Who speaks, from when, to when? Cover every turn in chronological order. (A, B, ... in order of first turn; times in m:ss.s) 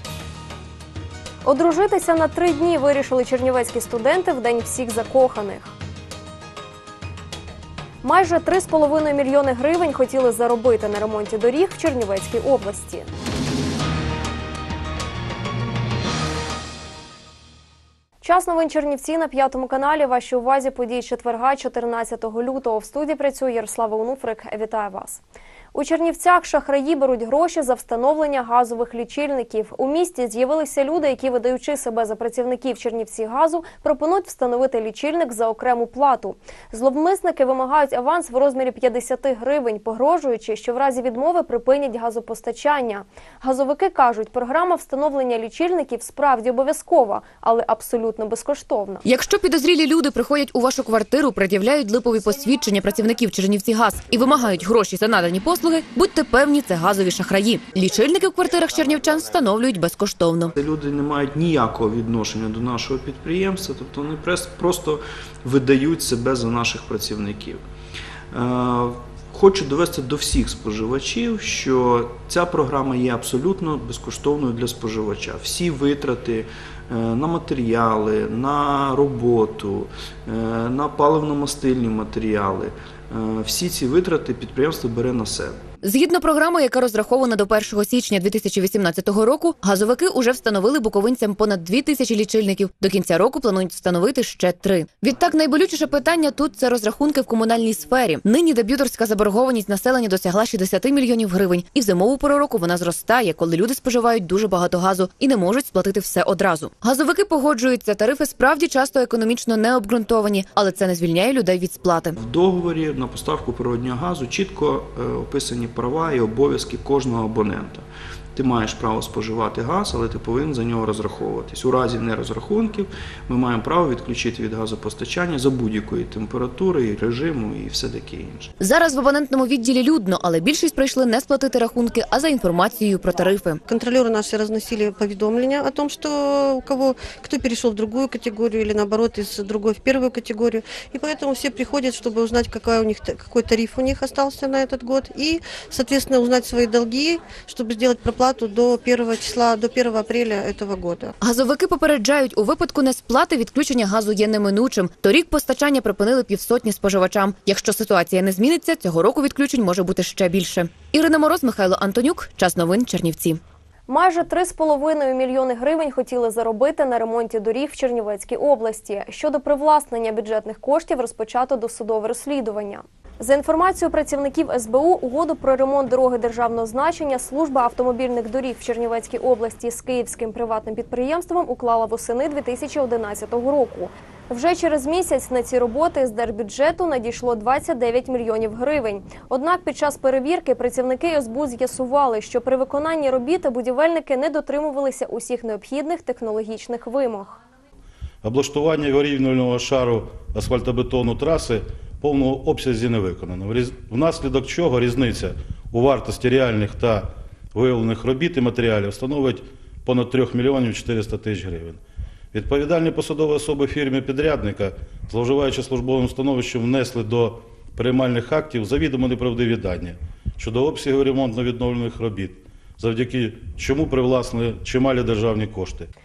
0:01.4-0:05.7 A
0:08.0-0:13.1 A
0:18.2-0:25.2 A
0:25.7-0:49.0 A
0:49.0-1:00.5 B
1:00.6-1:07.6 C
1:08.3-1:25.6 C
1:25.8-1:52.2 B
1:52.2-2:08.5 C
2:08.6-2:13.6 B
2:13.7-2:31.1 D
2:31.2-2:43.4 B
2:43.9-3:17.4 A
3:18.2-3:31.8 E
3:32.3-3:45.9 E